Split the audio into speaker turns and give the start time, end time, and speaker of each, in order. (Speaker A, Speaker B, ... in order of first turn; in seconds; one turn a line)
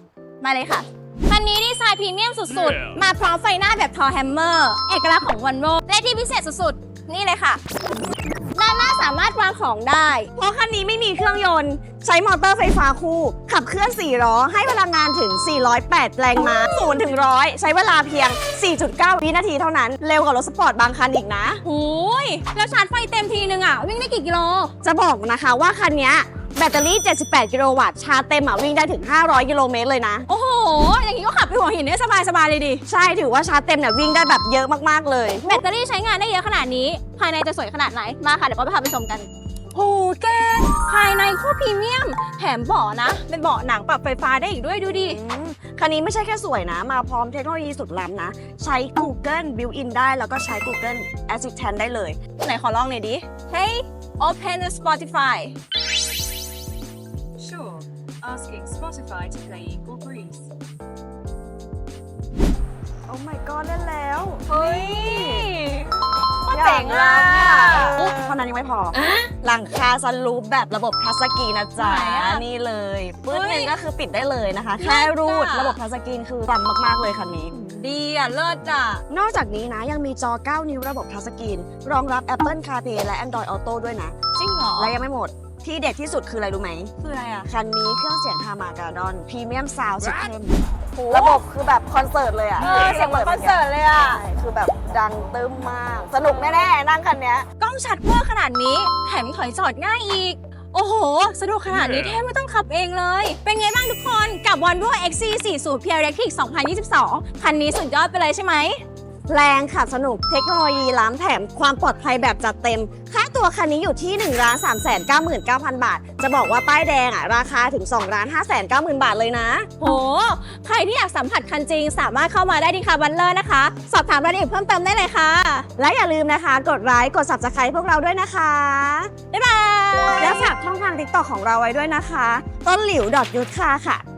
Speaker A: 0.4-7.6
Speaker A: 8.5-10.3
Speaker B: 10.3-21.6
Speaker A: 16.4-17.0
Speaker A: 21.6-24.7
Speaker B: 24.8-30.3
Speaker A: 30.3-32.8
Speaker B: 32.9-35.6
Speaker A: 35.4-45.2
Speaker B: 45.0-52.2
Speaker A: 52.4-55.5
Speaker C: 57.4-60.4
Speaker B: 63.1-65.5
Speaker A: 64.5-68.3
Speaker B: 66.5-77.5
Speaker A: 68.9-69.3
Speaker A: 71.8-72.4
Speaker A: 73.3-73.7
Speaker A: 74.8-75.8
Speaker A: 77.5-79.0
Speaker B: 79.1-84.1
Speaker A: 84.3-84.9
Speaker B: 84.8-86.9
Speaker A: 87.0-87.5
Speaker B: 87.4-97.5
Speaker A: 90.9-91.4
Speaker A: 92.6-94.2
Speaker A: 97.6-108.8
Speaker B: 109.3-119.7
Speaker A: 119.8-125.7
Speaker B: 125.8-129.1
Speaker A: 129.3-130.5
Speaker B: 130.2-134.0